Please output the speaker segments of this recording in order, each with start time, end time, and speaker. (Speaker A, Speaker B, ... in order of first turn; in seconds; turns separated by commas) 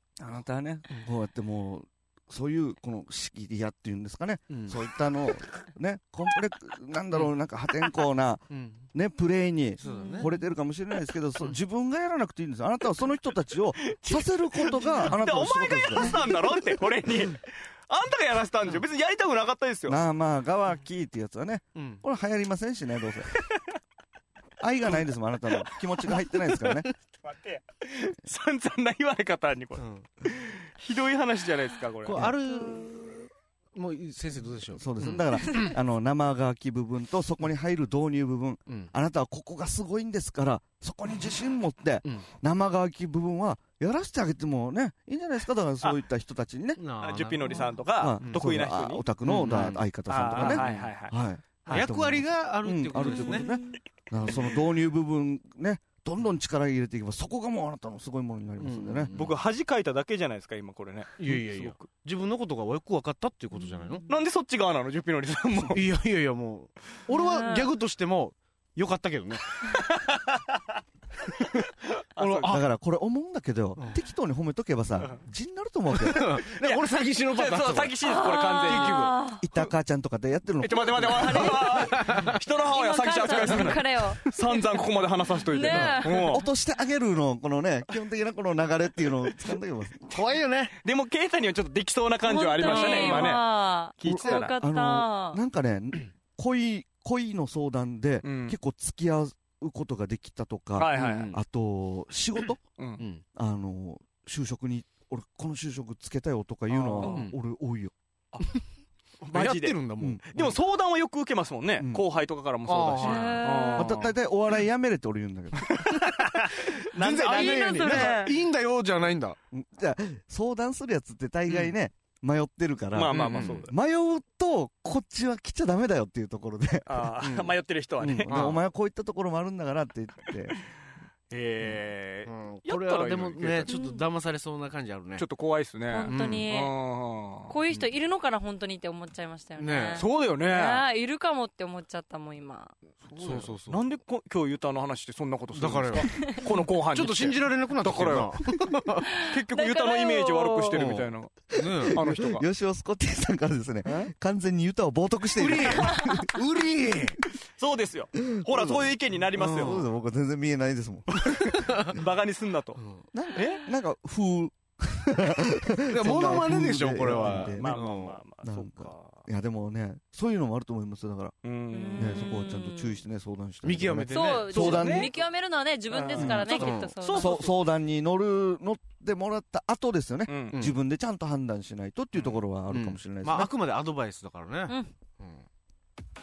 Speaker A: 0.2-16.3, Speaker B: 4.5-4.8, Speaker B: 8.5-8.8, Speaker B: 9.8-10.3, Speaker C: 9.9-10.2, Speaker D: 13.8-20.0, Speaker A: 19.9-23.3, Speaker B: 21.7-22.0, Speaker A: 24.6-26.9, Speaker D: 27.3-32.3, Speaker B: 29.8-30.0, Speaker B: 32.0-35.7, Speaker A: 34.8-46.8, Speaker B: 46.8-48.4, Speaker D: 47.0-49.0, Speaker A: 48.0-59.1, Speaker B: 49.2-50.9, Speaker D: 50.1-51.1, Speaker B: 51.7-53.5, Speaker B: 58.6-59.4, Speaker D: 59.1-61.9, Speaker B: 61.2-64.0, Speaker C: 63.6-64.0, Speaker D: 64.1-65.9, Speaker B: 65.7-69.5, Speaker C: 67.1-67.7, Speaker D: 69.6-70.8, Speaker D: 71.3-72.6, Speaker B: 71.4-71.7, Speaker A: 72.2-76.3, Speaker B: 72.3-72.6, Speaker B: 75.9-79.2, Speaker D: 76.6-79.1, Speaker C: 78.0-79.4, Speaker A: 79.4-81.6, Speaker D: 80.6-86.5, Speaker C: 81.1-82.1, Speaker B: 81.4-82.3, Speaker C: 82.7-84.4, Speaker C: 85.5-86.5, Speaker A: 85.7-90.1, Speaker B: 90.1-90.7, Speaker D: 90.8-94.5, Speaker C: 92.2-95.4, Speaker B: 92.6-93.4, Speaker A: 94.0-102.6, Speaker D: 98.2-98.6, Speaker D: 100.8-101.3, Speaker B: 100.9-101.4, Speaker D: 102.8-103.0, Speaker A: 103.3-107.9, Speaker D: 106.7-107.2, Speaker B: 107.0-107.3, Speaker D: 108.3-108.6, Speaker B: 109.2-110.5, Speaker D: 109.3-109.8, Speaker A: 110.0-110.5, Speaker D: 110.3-114.1, Speaker A: 111.8-112.0, Speaker B: 112.7-113.9, Speaker C: 113.0-113.9, Speaker A: 113.8-116.1, Speaker D: 115.7-118.3, Speaker B: 116.5-119.4, Speaker C: 117.2-118.3, Speaker A: 119.5-127.1, Speaker D: 122.9-123.7, Speaker B: 123.1-123.7, Speaker D: 126.8-128.3, Speaker B: 127.2-127.5, Speaker A: 128.0-130.5, Speaker B: 128.3-128.6, Speaker D: 131.3-133.7, Speaker B: 131.6-135.2, Speaker C: 133.7-134.0, Speaker D: 135.2-137.5, Speaker C: 135.9-136.7, Speaker B: 136.1-136.5, Speaker C: 137.5-142.8, Speaker B: 139.6-140.0, Speaker D: 139.9-140.9, Speaker B: 143.0-143.8, Speaker D: 143.1-148.6, Speaker B: 145.5-149.1, Speaker D: 149.1-152.4, Speaker C: 149.2-150.9, Speaker A: 150.7-156.2, Speaker B: 151.6-152.0, Speaker B: 155.3-157.2, Speaker D: 157.6-159.8, Speaker A: 158.3-158.7, Speaker B: 159.3-159.8, Speaker A: 159.6-161.5, Speaker D: 161.1-162.8, Speaker B: 161.5-161.9, Speaker B: 162.8-163.0, Speaker A: 163.1-167.9, Speaker D: 163.3-163.6, Speaker B: 165.9-168.2, Speaker D: 167.2-169.2, Speaker A: 168.4-171.3, Speaker D: 171.4-172.3, Speaker C: 171.7-173.0, Speaker A: 171.9-175.1, Speaker B: 173.6-175.1, Speaker C: 174.1-177.4, Speaker D: 174.2-175.1, Speaker D: 175.9-177.3, Speaker A: 176.1-183.5, Speaker B: 176.4-177.5, Speaker D: 180.3-180.6, Speaker B: 182.2-185.4